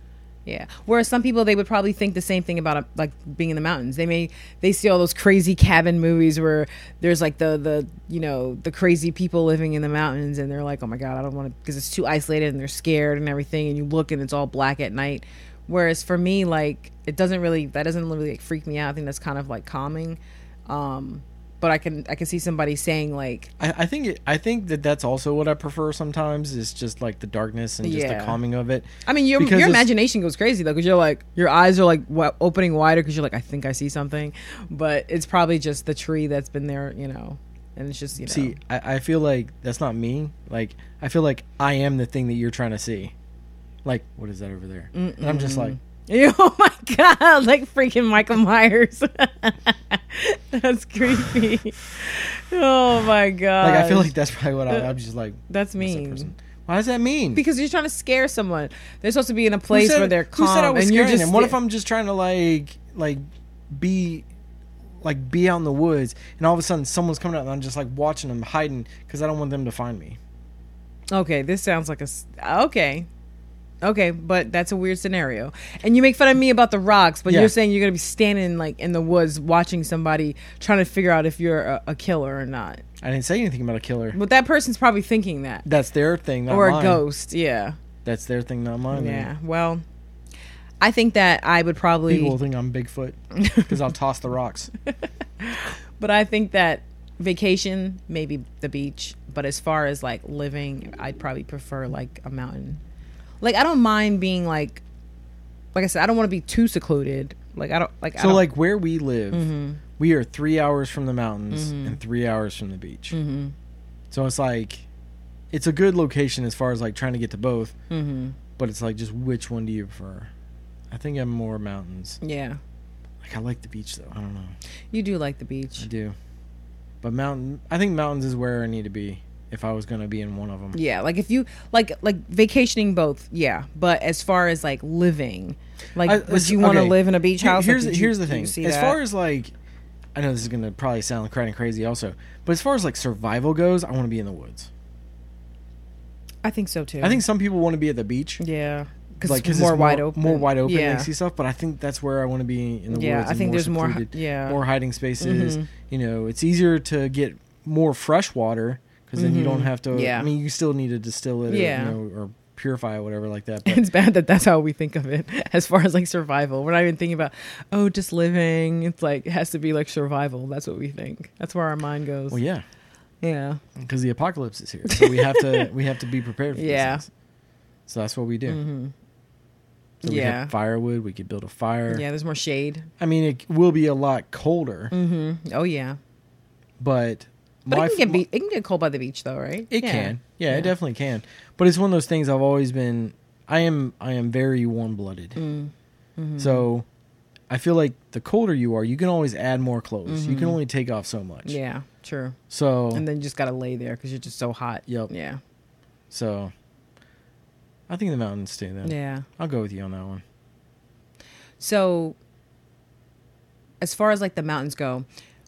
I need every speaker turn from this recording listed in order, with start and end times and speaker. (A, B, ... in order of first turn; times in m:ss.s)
0:00.5-0:23.5 A
0:23.6-0:29.9 B
0:27.8-0:28.4 A
0:29.0-0:38.6 A
0:38.2-0:43.1 B
0:43.8-0:45.8 B
0:44.9-0:54.1 A
0:53.6-0:57.4 B
0:55.5-0:56.3 A
0:57.4-1:01.6 A
0:59.7-1:03.2 B
1:03.7-1:04.3 B
1:05.0-1:10.2 B
1:11.1-1:13.1 A
1:13.8-1:22.8 A
1:17.3-1:17.6 B
1:23.0-1:24.2 B
1:24.1-1:25.6 A
1:25.6-1:27.0 B
1:26.5-1:27.8 A
1:28.0-1:29.3 B
1:28.9-1:29.8 A
1:30.8-1:32.4 A
1:32.1-1:34.7 B
1:33.4-1:33.8 A
1:35.4-1:42.8 A
1:43.4-1:44.8 A
1:45.7-1:48.5 A
1:48.2-1:53.2 B
1:49.3-1:49.8 A
1:51.5-1:52.0 A
1:53.1-1:53.6 A
1:54.1-1:54.8 B
1:55.5-1:57.7 B
1:57.9-1:58.4 A
1:58.6-2:00.3 B
2:00.9-2:02.2 B
2:02.2-2:02.6 A
2:03.2-2:04.6 B
2:04.9-2:05.9 A
2:05.8-2:06.2 B
2:07.0-2:10.8 B
2:10.7-2:19.0 A
2:16.0-2:19.5 B
2:20.2-2:24.7 B
2:26.4-2:27.2 A
2:27.0-2:28.4 B
2:28.4-2:31.1 A
2:29.2-2:43.8 B
2:32.9-2:34.6 A
2:35.2-2:35.7 A
2:39.2-2:40.3 A
2:41.5-2:42.0 A
2:43.6-2:52.4 A
2:52.3-2:52.6 B
2:53.2-2:53.6 A
2:53.8-2:57.1 B
2:54.8-2:55.7 A
2:56.5-2:57.0 A
2:57.9-2:58.6 B
2:58.5-2:58.9 A
3:00.0-3:00.5 A
3:00.0-3:02.0 B
3:01.9-3:02.9 A
3:03.0-3:04.9 B
3:04.9-3:06.0 A
3:06.8-3:08.2 B
3:07.7-3:10.7 A
3:09.7-3:15.4 B
3:15.4-3:16.7 A
3:16.4-3:16.9 B
3:17.5-3:21.6 B
3:20.1-3:20.6 A
3:21.4-3:22.4 A
3:22.5-3:23.1 B
3:22.9-3:25.4 A
3:26.1-3:26.5 B
3:27.9-3:30.2 B
3:28.8-3:29.3 A
3:31.6-3:32.2 A
3:33.8-3:35.1 A